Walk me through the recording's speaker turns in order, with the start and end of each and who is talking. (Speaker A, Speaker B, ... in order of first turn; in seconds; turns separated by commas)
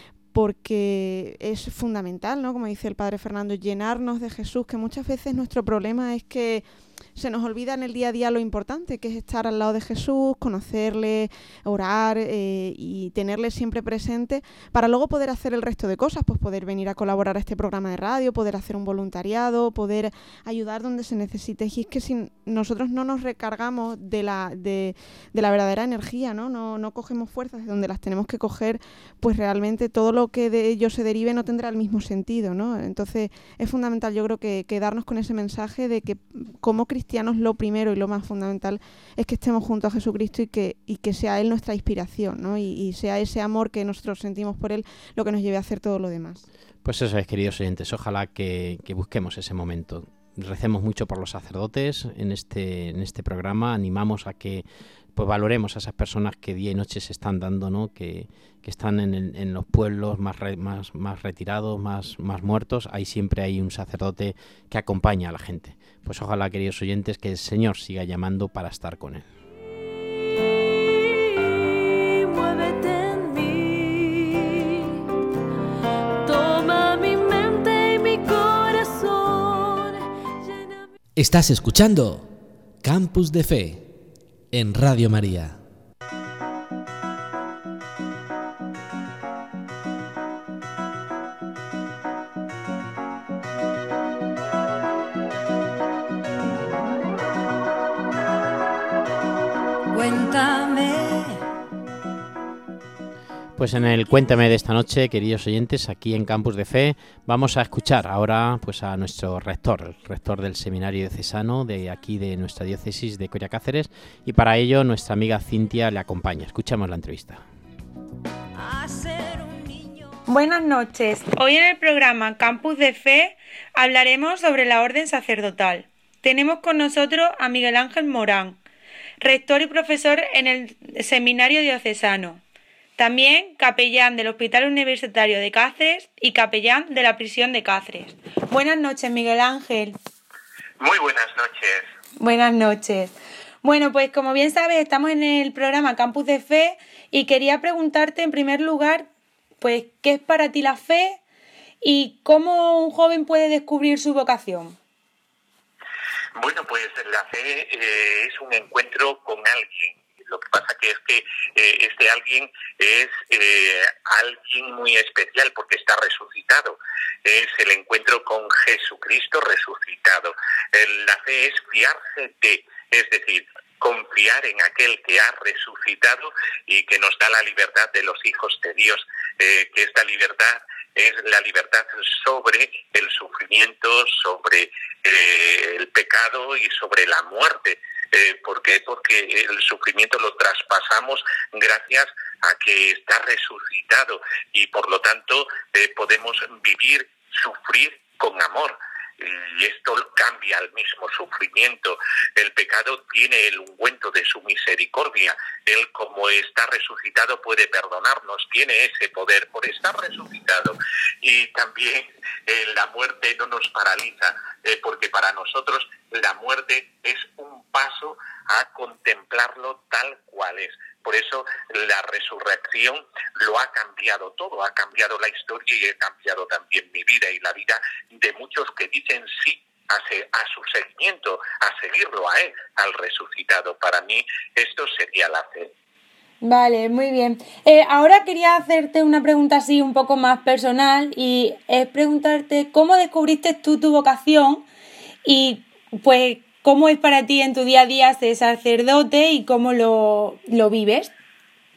Speaker A: 0.3-6.6, Speaker A: 7.2-46.4, Speaker B: 46.8-69.3, Speaker C: 70.0-75.1, Speaker C: 76.2-80.9, Speaker D: 81.2-83.9, Speaker D: 84.5-85.6, Speaker C: 99.9-101.4, Speaker B: 103.6-117.4, Speaker C: 118.6-120.2, Speaker E: 120.3-128.6, Speaker E: 129.2-132.4, Speaker E: 133.0-140.0, Speaker F: 140.8-141.9, Speaker E: 142.2-149.1, Speaker E: 149.6-151.2, Speaker E: 151.8-154.8, Speaker F: 156.4-235.7, Speaker E: 236.4-244.7, Speaker E: 245.2-251.1